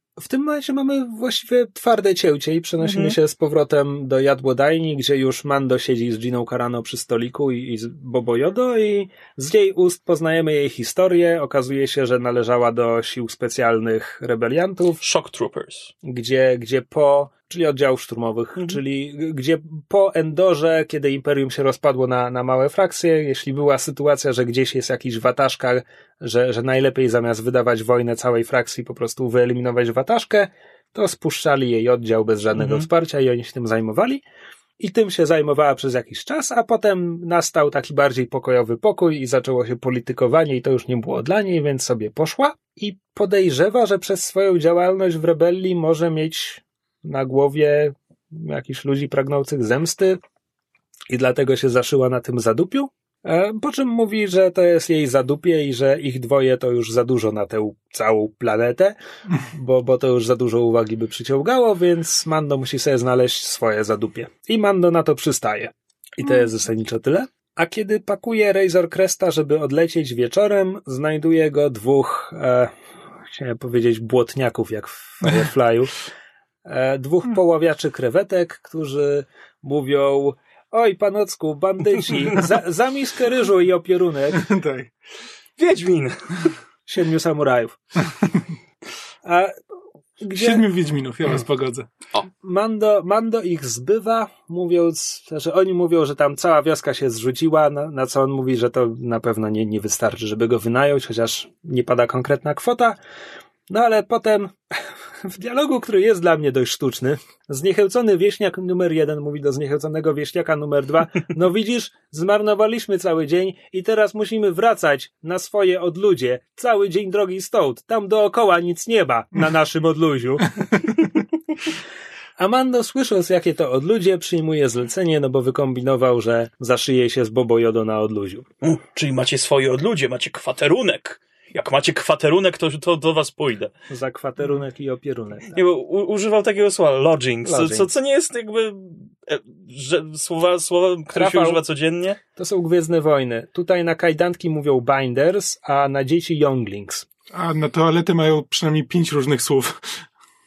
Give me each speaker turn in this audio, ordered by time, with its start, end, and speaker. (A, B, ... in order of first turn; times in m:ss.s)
0:00.2-0:15.0 A
0:02.8-0:03.2 B
0:15.0-0:15.9 B
0:16.0-0:34.2 A
0:32.6-0:32.8 B
0:34.8-0:50.2 A
0:51.1-1:12.7 A
1:13.3-1:16.0 A
1:16.6-1:24.5 A
1:24.3-1:24.9 C
1:25.6-1:26.5 B
1:26.9-1:27.8 A
1:29.2-1:29.5 A
1:30.2-1:30.6 A
1:30.4-1:31.9 C
1:32.4-1:43.0 A
1:43.7-1:44.6 A
1:45.2-2:00.9 A
2:02.4-2:08.5 A
2:08.6-2:13.7 B
2:13.9-2:15.6 A
2:15.5-2:22.2 B
2:17.4-2:17.9 A
2:21.1-2:21.6 A
2:22.4-2:27.1 A
2:27.3-2:30.0 C